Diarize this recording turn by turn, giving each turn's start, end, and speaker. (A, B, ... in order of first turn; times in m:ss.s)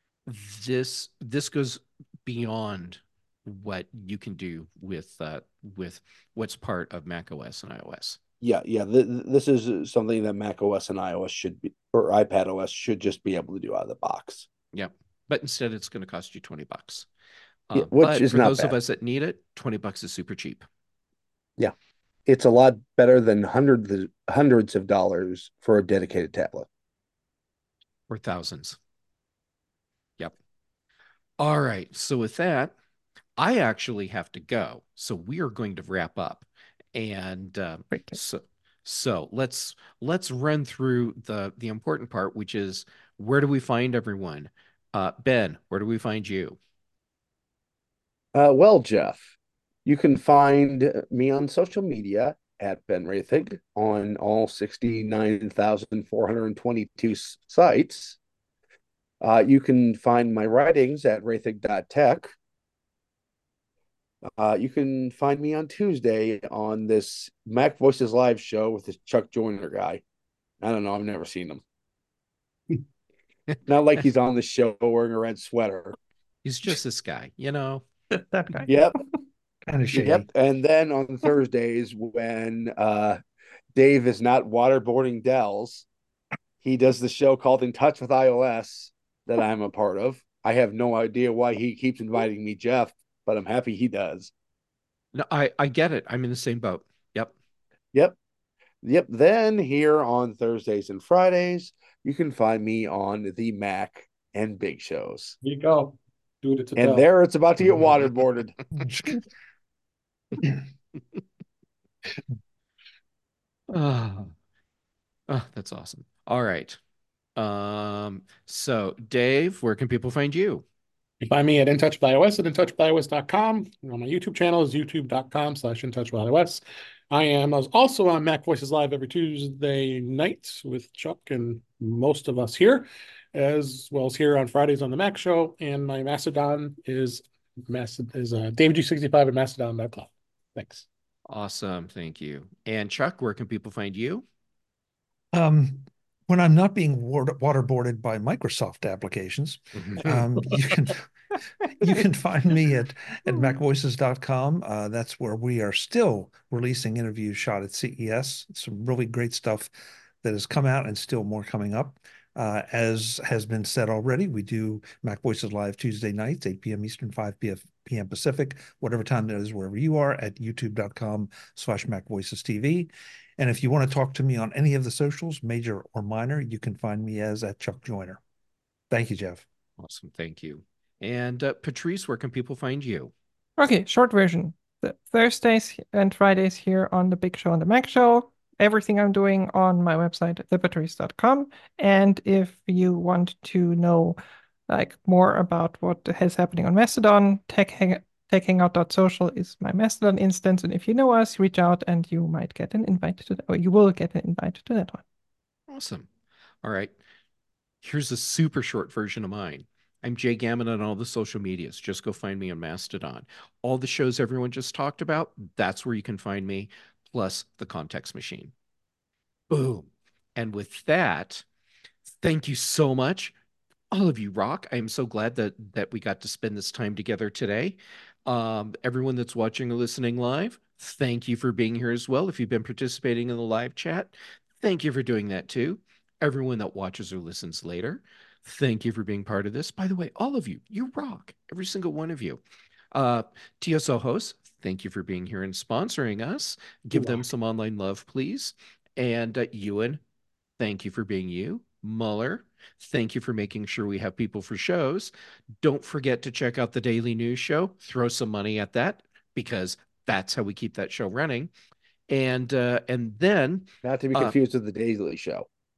0:00.3-0:08.2 A
0:08.4-0:14.5 B
0:14.7-0:17.1 A
0:17.7-0:20.7 A
0:17.8-0:18.7 B
0:22.3-0:26.7 B
0:28.1-0:28.8 A
0:31.4-0:32.7 A
0:33.4-0:46.6 A
0:37.9-0:38.2 C
0:48.3-0:49.2 B
0:49.8-0:58.2 B
0:59.2-1:02.3 B
1:04.4-1:10.0 B
1:10.6-1:11.6 B
1:13.7-1:16.0 B
1:16.4-1:17.8 A
1:18.1-1:18.7 C
1:18.7-1:19.0 B
1:19.7-1:20.3 D
1:19.9-1:23.2 B
1:23.7-1:25.9 B
1:26.6-1:34.3 B
1:35.1-1:37.3 A
1:38.8-1:45.4 B
1:45.4-1:47.1 E
1:46.8-1:48.6 B
1:48.8-1:49.2 D
1:53.7-1:54.3 A
1:55.3-1:56.8 A
1:57.4-2:00.6 A
2:01.2-2:20.9 E
2:21.3-2:24.3 A
2:25.3-2:31.1 D
2:29.8-2:30.2 A
2:31.6-2:39.7 D
2:40.2-2:58.2 D
2:58.9-2:59.4 D
2:59.8-3:03.1 A
3:03.6-3:14.2 C
3:14.7-3:25.0 C
3:25.7-3:26.1 A
3:26.6-3:27.0 A
3:27.8-3:38.5 A
3:39.5-3:41.4 A
3:42.1-3:43.3 A
3:43.9-4:02.4 A
4:02.9-4:10.0 A
4:06.9-4:07.2 E
4:10.6-4:15.1 A
4:15.6-4:21.5 A
4:22.1-4:24.4 A
4:23.8-4:25.5 B